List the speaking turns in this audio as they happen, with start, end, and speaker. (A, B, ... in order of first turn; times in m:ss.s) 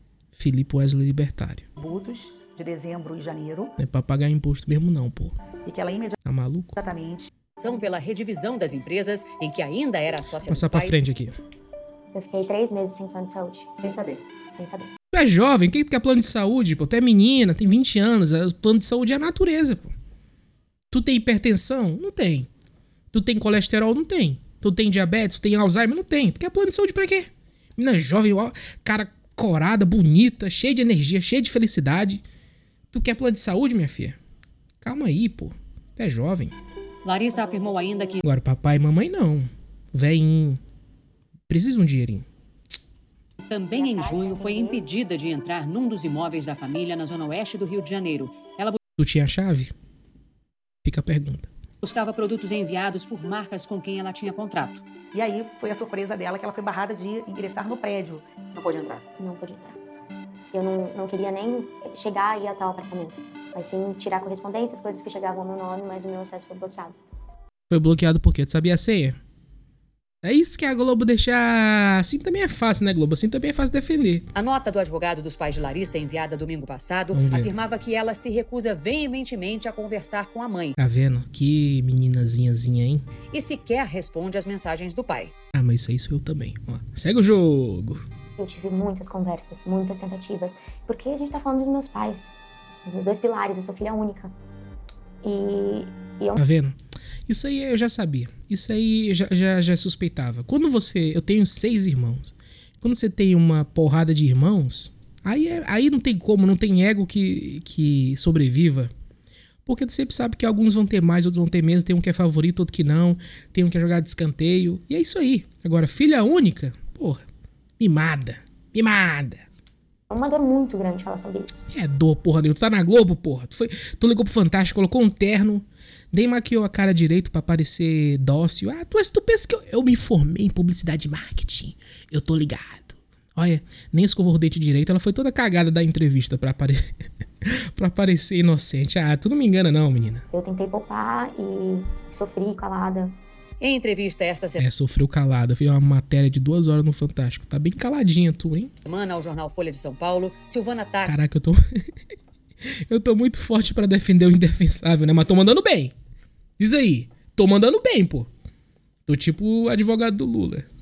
0:00.4-0:01.7 A
0:01.8-0:03.8 B
0:03.8-0:05.4 A
0:05.6-0:06.2 B
0:06.2-0:06.8 A
0:06.8-0:07.3 B
0:07.6-0:11.0 C
0:10.5-0:11.4 A
0:12.1-0:13.9 D
0:13.8-0:14.2 C
0:14.5-0:14.9 D
0:15.1-0:19.9 A
0:20.9-0:22.5 A
0:23.1-0:32.2 A
0:32.9-0:34.2 A
0:34.8-0:36.6 A
0:37.0-0:38.2 C
0:37.3-0:38.2 D
0:38.2-0:40.6 A
0:41.5-0:42.3 A
0:43.4-0:48.8 C
0:43.7-0:44.9 D
0:49.0-0:49.7 A
0:50.8-0:51.5 A
0:51.8-0:54.8 C
0:55.1-0:58.2 B
0:58.5-0:59.0 C
0:59.2-0:59.8 D
1:00.5-1:07.0 D
1:07.7-1:09.2 A
1:10.2-1:14.3 A
1:14.4-1:20.8 C
1:17.1-1:17.5 A
1:20.8-1:23.0 A
1:23.3-1:25.4 C
1:25.5-1:28.0 A
1:28.4-1:34.3 D
1:35.2-1:36.4 D
1:36.4-1:36.8 A
1:37.3-1:48.9 A
1:49.7-1:57.2 A
1:57.8-1:59.5 A
2:00.1-2:01.7 D
2:01.7-2:16.9 A
2:17.4-2:20.2 A
2:20.3-2:23.2 D
2:23.6-2:24.7 C
2:24.6-2:28.7 A
2:28.9-2:31.2 C
2:31.1-2:31.6 A
2:32.9-2:35.9 A
2:36.6-2:38.3 A
2:39.1-2:40.7 A